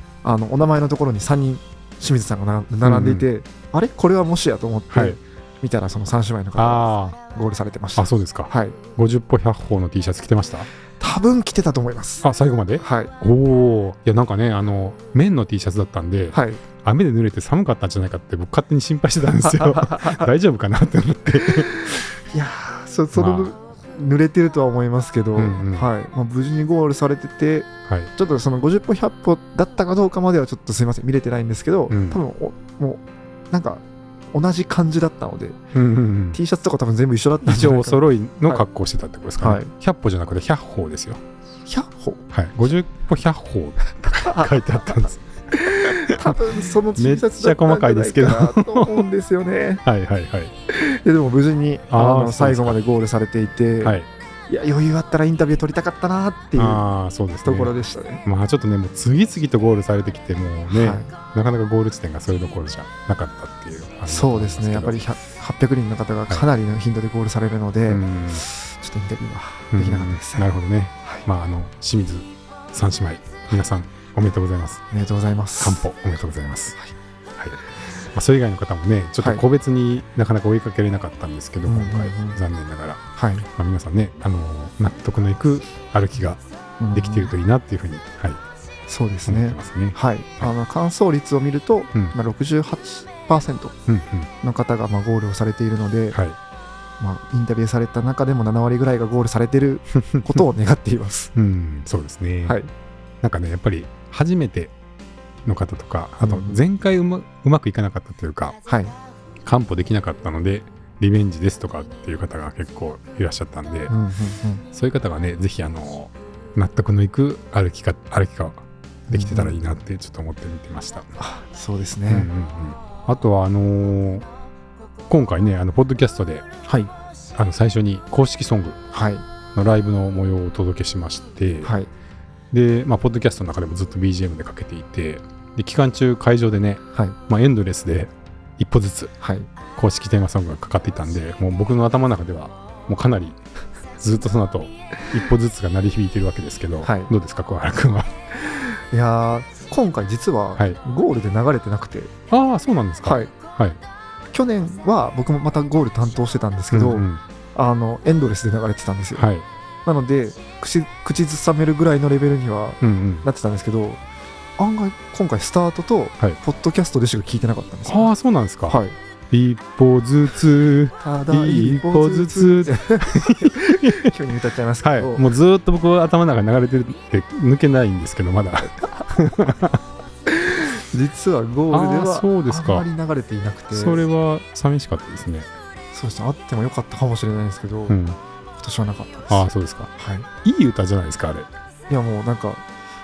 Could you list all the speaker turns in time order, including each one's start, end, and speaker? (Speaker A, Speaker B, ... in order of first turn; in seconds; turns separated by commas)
Speaker A: 0.2-8.8, Speaker B: 2.8-3.3, Speaker B: 4.9-5.2, Speaker B: 6.6-7.2, Speaker B: 8.0-10.7, Speaker A: 11.0-12.2, Speaker B: 12.2-22.0, Speaker A: 12.8-13.1, Speaker A: 16.3-16.6, Speaker A: 19.4-20.3, Speaker A: 21.4-35.6, Speaker B: 23.1-23.5, Speaker B: 25.4-25.9, Speaker B: 31.9-32.2, Speaker B: 35.7-36.4, Speaker A: 36.3-38.6, Speaker B: 37.4-41.2, Speaker A: 39.4-39.7, Speaker A: 41.6-42.2, Speaker B: 42.3-46.4, Speaker A: 44.2-49.8, Speaker B: 47.0-49.1, Speaker B: 49.8-50.5, Speaker A: 50.7-54.0, Speaker B: 51.9-52.8, Speaker B: 53.8-54.1, Speaker A: 54.5-56.9, Speaker B: 56.6-65.0, Speaker A: 57.4-58.2, Speaker A: 60.7-61.1, Speaker A: 64.1-70.5, Speaker B: 67.9-68.4, Speaker B: 69.7-74.8, Speaker A: 74.9-75.8, Speaker B: 75.6-76.8, Speaker B: 78.1-86.4, Speaker A: 81.7-82.4, Speaker A: 83.1-83.5, Speaker A: 86.8-87.3, Speaker B: 86.9-88.4, Speaker A: 88.9-93.8, Speaker B: 89.3-90.5, Speaker B: 93.9-94.3, Speaker A: 94.4-96.2, Speaker A: 97.0-101.3, Speaker B: 100.0-100.2, Speaker B: 101.3-102.6, Speaker B: 103.2-104.7, Speaker B: 105.5-108.6, Speaker A: 106.2-106.6, Speaker A: 108.7-109.0, Speaker B: 109.4-113.9, Speaker A: 113.9-114.6, Speaker B: 114.7-118.6, Speaker A: 119.1-119.6, Speaker B: 119.1-121.1, Speaker A: 121.2-122.3, Speaker B: 122.1-124.2, Speaker B: 125.1-126.5, Speaker A: 126.7-126.9, Speaker B: 127.4-128.8, Speaker A: 128.9-129.2, Speaker B: 129.5-131.7, Speaker A: 131.6-131.9, Speaker B: 132.5-139.1, Speaker A: 139.2-139.5, Speaker B: 139.7-143.4, Speaker B: 144.0-148.1, Speaker A: 146.8-147.1, Speaker A: 148.5-152.1, Speaker B: 152.3-153.8, Speaker A: 153.0-153.3, Speaker A: 154.3-159.2, Speaker B: 156.7-157.2, Speaker B: 159.1-159.5, Speaker A: 159.9-164.0, Speaker B: 162.8-163.2, Speaker A: 164.6-168.1, Speaker B: 167.9-168.8, Speaker A: 168.7-169.0, Speaker B: 169.3-174.1, Speaker A: 171.0-175.3, Speaker B: 174.8-179.8, Speaker A: 180.3-184.0, Speaker B: 181.7-182.9, Speaker B: 183.7-185.5, Speaker A: 185.9-188.0, Speaker B: 187.9-188.2, Speaker A: 188.6-190.3, Speaker B: 189.3-189.9, Speaker B: 190.4-191.5, Speaker A: 191.9-192.6